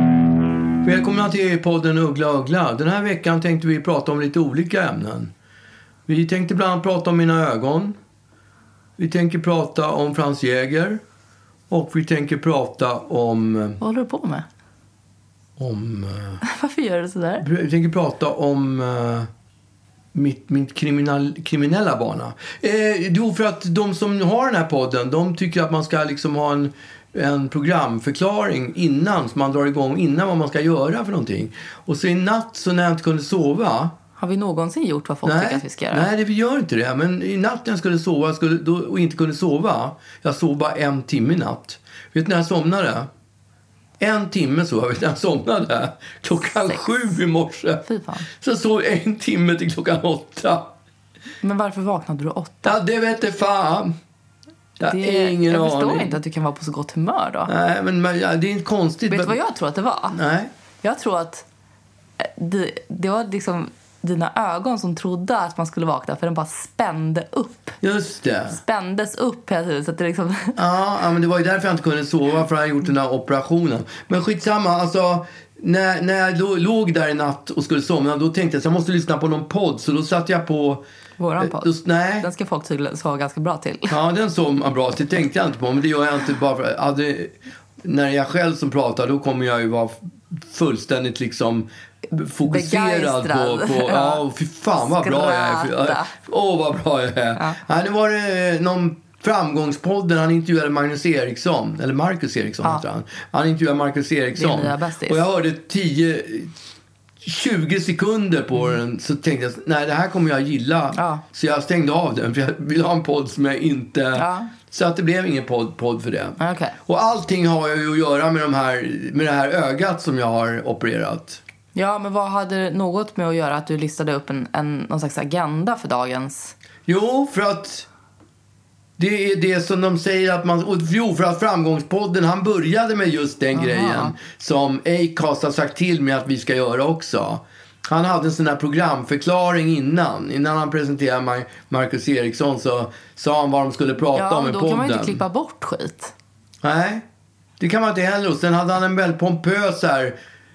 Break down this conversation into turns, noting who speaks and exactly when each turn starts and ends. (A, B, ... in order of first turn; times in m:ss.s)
0:00.8-0:05.3 A
0:06.1-0:08.0 A
0:09.0-0:11.0 A
0:11.7-0:13.8 A
0:13.8-0:14.5 B
0:15.6-0:16.4 A
0:16.4-0:17.4 B
0:17.4-0:19.3 A
0:20.2-0:33.9 A
0:34.2-0:36.1 B
0:35.2-0:43.1 A
0:44.0-0:50.7 A
0:47.9-0:48.3 B
0:51.4-0:52.8 B
0:52.6-0:53.9 A
0:54.8-0:56.2 A
0:54.8-0:57.5 B
0:57.5-0:59.4 A
0:59.1-1:00.2 B
1:00.1-1:00.5 A
1:00.8-1:01.4 B
1:02.2-1:07.8 B
1:07.8-1:08.6 A
1:08.5-1:10.6 B
1:10.6-1:20.8 A
1:21.2-1:23.9 B
1:21.4-1:22.3 A
1:23.9-1:46.5 A
1:32.4-1:34.2 B
1:34.8-1:36.1 B
1:44.4-1:45.2 B
1:47.2-2:01.4 A
1:50.9-1:51.2 B
1:54.2-1:54.5 B
1:56.4-1:56.7 B
2:01.8-2:06.5 B
2:06.9-2:07.9 A
2:09.0-2:25.2 A
2:13.5-2:14.1 B
2:24.2-2:26.1 B
2:26.6-2:27.0 A
2:27.6-2:30.2 A